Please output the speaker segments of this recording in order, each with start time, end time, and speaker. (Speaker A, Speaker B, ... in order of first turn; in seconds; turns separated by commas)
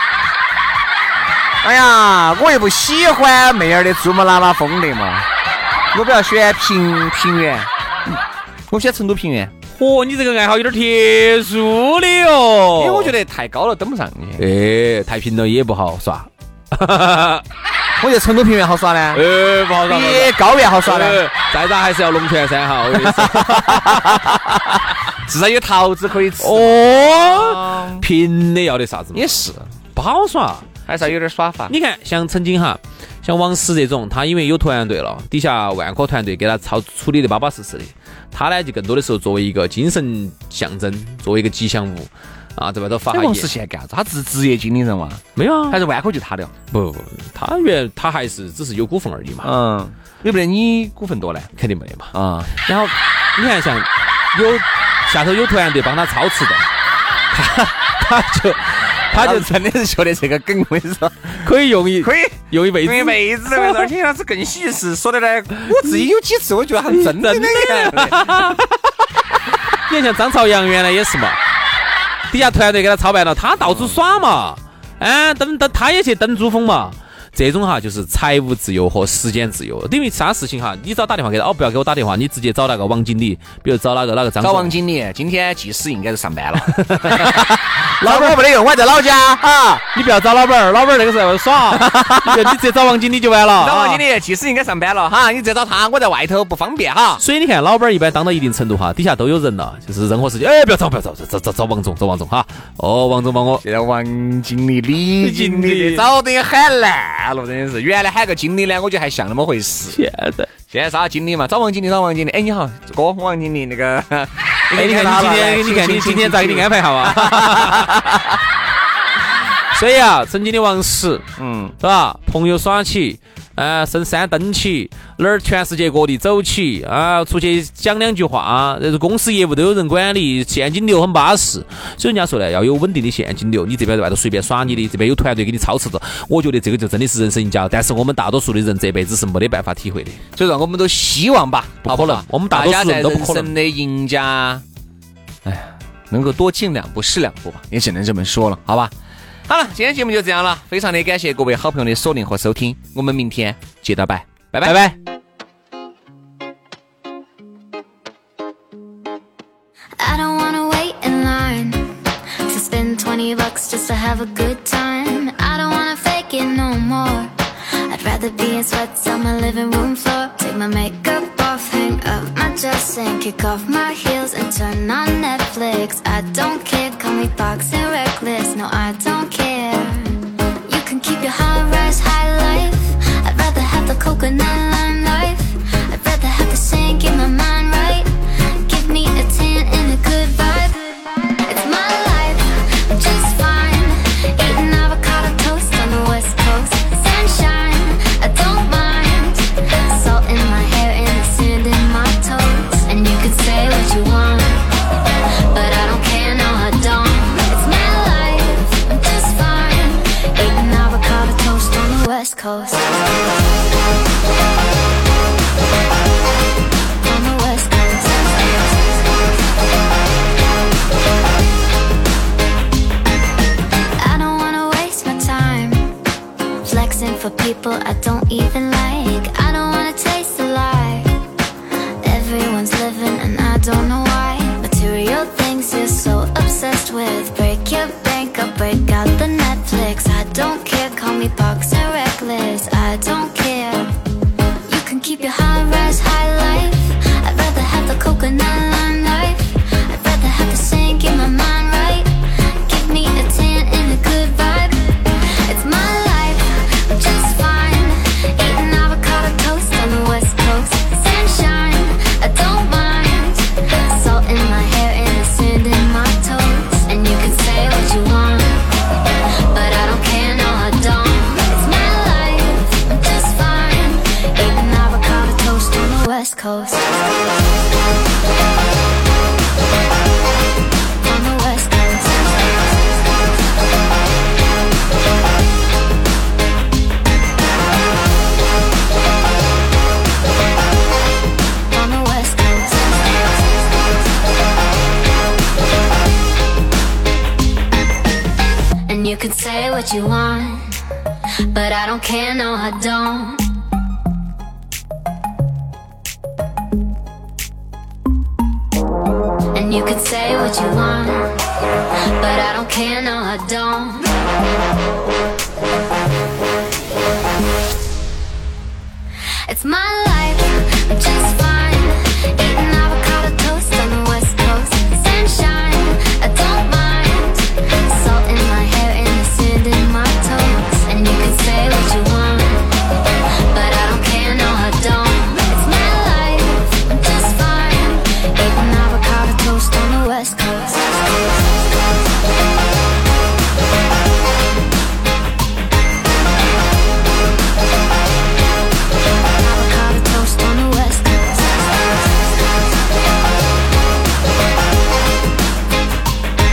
Speaker A: 1.6-5.3, Speaker A: 5.9-7.7, Speaker A: 8.7-9.5, Speaker B: 9.7-13.1, Speaker A: 12.8-14.4, Speaker B: 14.4-17.4, Speaker A: 18.0-19.2, Speaker B: 19.1-24.8, Speaker A: 19.9-21.2, Speaker A: 22.9-24.4, Speaker A: 25.2-28.0, Speaker B: 26.4-29.3, Speaker A: 29.1-29.7, Speaker B: 29.9-30.7, Speaker A: 30.9-31.7, Speaker B: 31.7-43.5, Speaker A: 43.1-46.5, Speaker B: 45.4-45.8, Speaker B: 46.7-49.5, Speaker A: 49.4-51.5, Speaker B: 51.5-56.6, Speaker A: 52.1-52.5, Speaker B: 57.3-59.5, Speaker A: 59.1-61.4, Speaker B: 61.4-63.9, Speaker A: 62.0-68.6, Speaker B: 66.9-68.7, Speaker B: 69.9-71.4, Speaker B: 72.3-84.7, Speaker A: 73.6-74.0, Speaker A: 84.4-89.8, Speaker B: 86.7-88.4, Speaker B: 89.9-94.0, Speaker A: 91.7-92.5, Speaker A: 93.6-97.2, Speaker B: 97.2-103.6, Speaker A: 103.6-110.0, Speaker B: 105.2-106.1, Speaker B: 109.9-110.5, Speaker A: 110.7-118.1, Speaker B: 114.7-118.3, Speaker B: 119.7-121.2, Speaker A: 121.4-121.8, Speaker B: 121.8-140.2, Speaker A: 140.3-144.6, Speaker B: 141.8-143.5, Speaker A: 145.4-148.9, Speaker A: 149.5-154.9, Speaker B: 154.6-154.9, Speaker C: 160.0-167.3, Speaker C: 167.8-204.7, Speaker C: 205.5-212.9, Speaker C: 217.0-219.0, Speaker C: 224.0-225.9, Speaker C: 226.6-231.2, Speaker C: 232.0-243.9, Speaker C: 244.7-268.6, Speaker C: 269.5-276.9, Speaker C: 281.0-282.7, Speaker C: 291.7-293.4, Speaker C: 298.9-300.8, Speaker C: 301.5-303.5, Speaker C: 309.5-311.4, Speaker C: 312.1-314.1, Speaker C: 319.5-332.8, Speaker C: 333.5-341.4, Speaker C: 349.4-351.8